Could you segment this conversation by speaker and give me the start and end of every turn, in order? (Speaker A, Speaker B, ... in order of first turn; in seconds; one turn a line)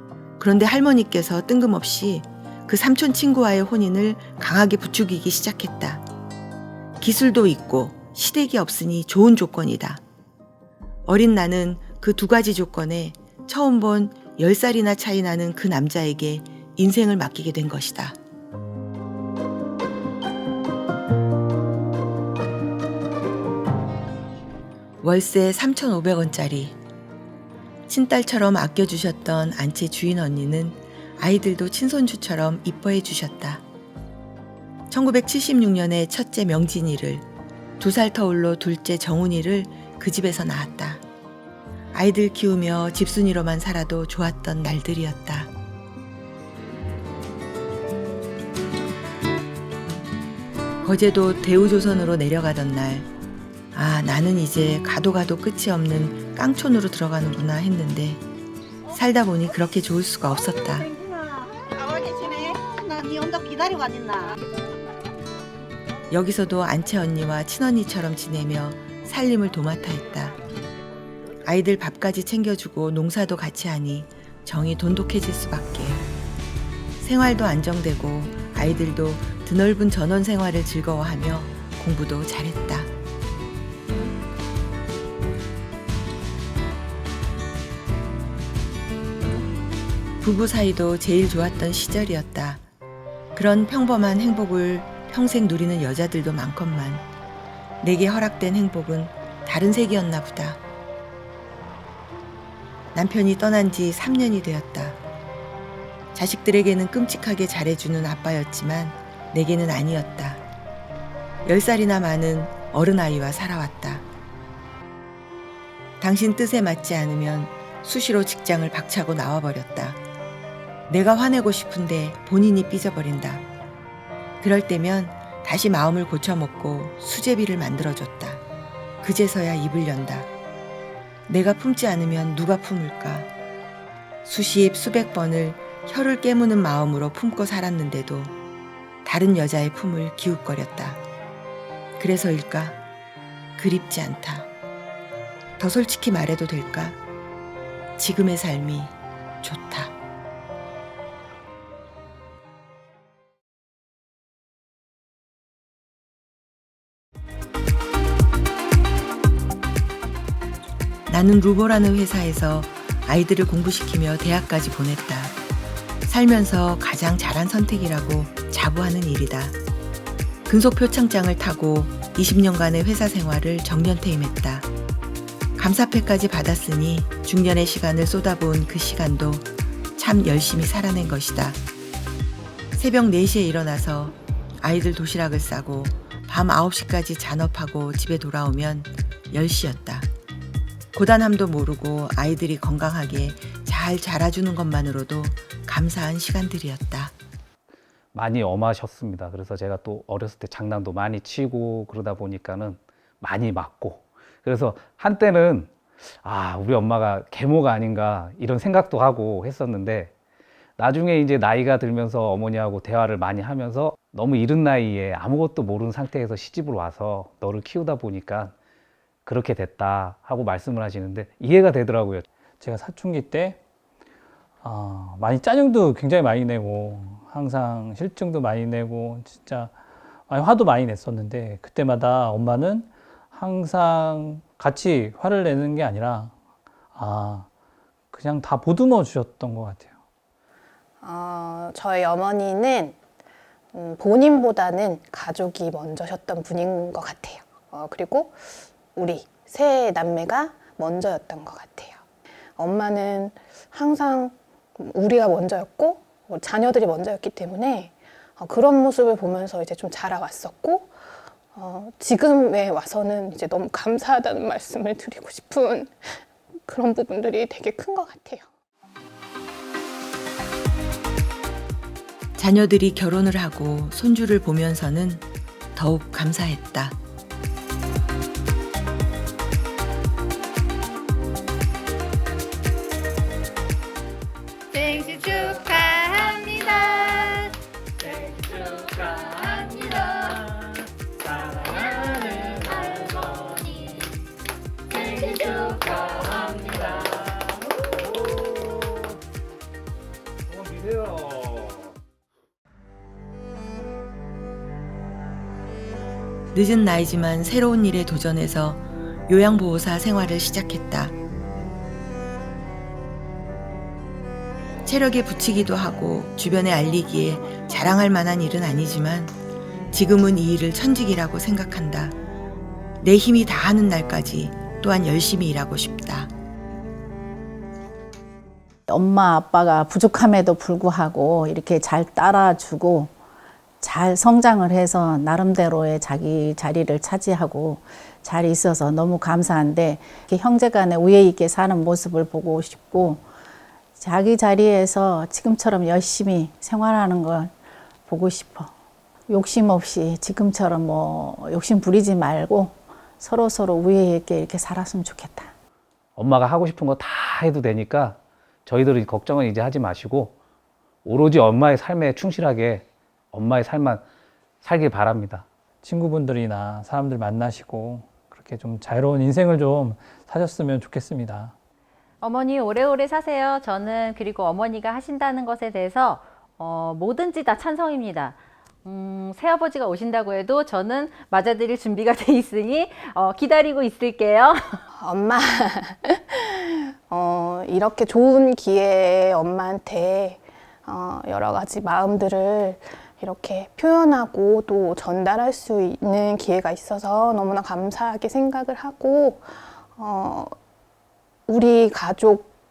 Speaker A: 0.4-6.0
Speaker A: 7.0-10.0
Speaker A: 11.1-18.2
Speaker A: 25.0-26.8
Speaker A: 27.9-33.6
Speaker A: 34.9-37.2
Speaker A: 37.8-41.0
Speaker A: 41.9-45.5
Speaker A: 50.8-53.1
Speaker A: 53.7-58.2
Speaker A: 58.9-60.9
Speaker B: 62.0-64.2
Speaker A: 66.1-70.4
Speaker A: 71.4-76.0
Speaker A: 77.0-82.9
Speaker A: 90.2-92.6
Speaker A: 93.3-97.0
Speaker A: 97.8-100.6
Speaker A: 102.9-105.0
Speaker A: 106.1-110.4
Speaker A: 111.4-114.1
Speaker A: 116.0-120.0
Speaker A: 120.9-123.4
Speaker A: 124.4-128.4
Speaker A: 129.0-130.3
Speaker A: 131.3-133.3
Speaker A: 134.2-138.3
Speaker A: 139.0-141.0
Speaker A: 142.0-142.8
Speaker A: 143.6-144.5
Speaker A: 145.6-147.0
Speaker A: 148.0-149.9
Speaker A: 161.1-165.3
Speaker A: 166.0-169.6
Speaker A: 170.5-174.7
Speaker A: 175.6-181.6
Speaker A: 182.7-190.1
Speaker A: 190.9-197.1
Speaker C: 198.1-210.1
Speaker C: 210.8-218.5
Speaker C: 219.2-222.2
Speaker D: 222.6-223.6
Speaker D: 224.6-229.8
Speaker D: 230.3-236.3
Speaker D: 236.9-237.5
Speaker D: 238.1-239.9
Speaker E: 241.0-243.0
Speaker E: 243.7-252.0
Speaker E: 252.6-268.5
Speaker A: 272.4-277.0
Speaker F: 284.7-287.5
Speaker C: 291.4-293.5
Speaker C: 294.9-297.5
Speaker C: 298.2-299.1
Speaker C: 300.5-301.9
Speaker A: 306.5-311.1
Speaker A: 314.8-319.3
Speaker A: 319.9-322.1
Speaker A: 323.0-326.3
Speaker G: 328.9-333.1
Speaker G: 333.8-343.2
Speaker G: 344.0-347.5
Speaker G: 348.1-348.7
Speaker G: 349.3-355.5
Speaker C: 356.2-360.3
Speaker C: 361.0-364.0
Speaker C: 364.6-365.4
Speaker D: 365.8-371.5
Speaker F: 372.2-384.8
Speaker E: 384.9-400.6
Speaker E: 401.5-402.5